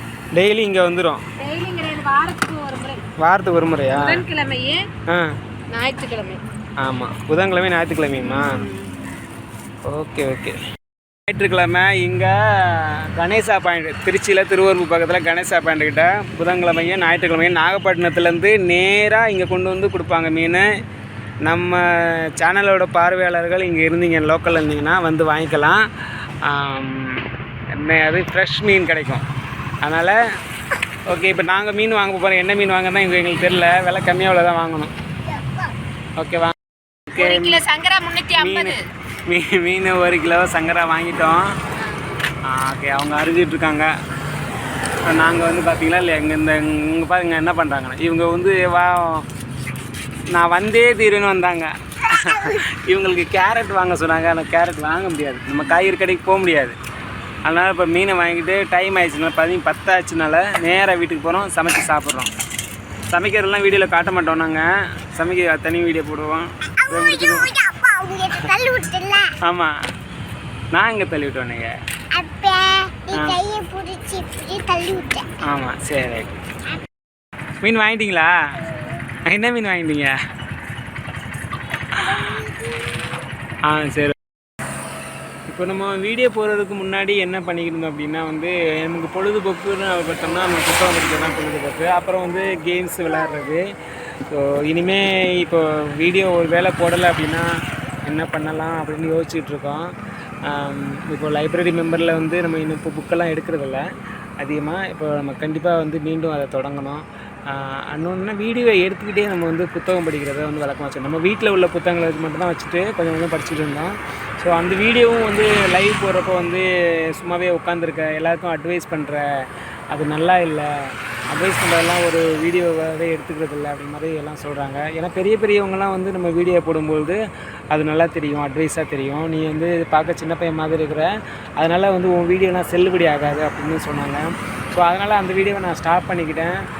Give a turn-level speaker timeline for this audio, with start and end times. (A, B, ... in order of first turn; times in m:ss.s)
0:00.3-0:01.2 A
0:01.4-0:03.0 B
0:03.2-0:04.2 A
0:03.9-0:04.8 B
0:05.1-0:05.4 A
0:05.7-0:06.4 B
0:06.8-0:08.6 A
0:08.5-0:08.8 B
0:09.8-0:10.6 A
0:11.3-0:20.7 A
0:21.4-0:25.9 A
0:26.4-0:29.2 A
0:29.8-0:30.2 A
0:31.1-0:34.9 A
0:35.3-0:35.7 C
0:36.2-0:36.6 A
0:37.1-0:37.6 A
0:37.2-0:38.8 B
0:38.4-0:41.6 A
0:42.4-0:43.9 A
0:45.0-0:49.3 A
0:50.3-0:56.8 A
0:57.5-1:02.3 A
1:03.1-1:07.5 A
1:06.8-1:09.3 C
1:09.4-1:09.7 A
1:10.7-1:11.8 A
1:12.1-1:15.3 C
1:13.1-1:13.4 A
1:15.4-1:16.4 A
1:17.6-1:18.6 A
1:18.7-1:19.0 C
1:19.3-1:20.2 A
1:21.9-1:23.1 C
1:22.0-1:22.4 A
1:23.7-1:24.2 A
1:25.5-1:33.6 A
1:34.3-1:37.5 A
1:38.1-1:39.9 A
1:40.4-1:43.8 A
1:44.4-2:07.2 A
2:07.7-2:16.6 A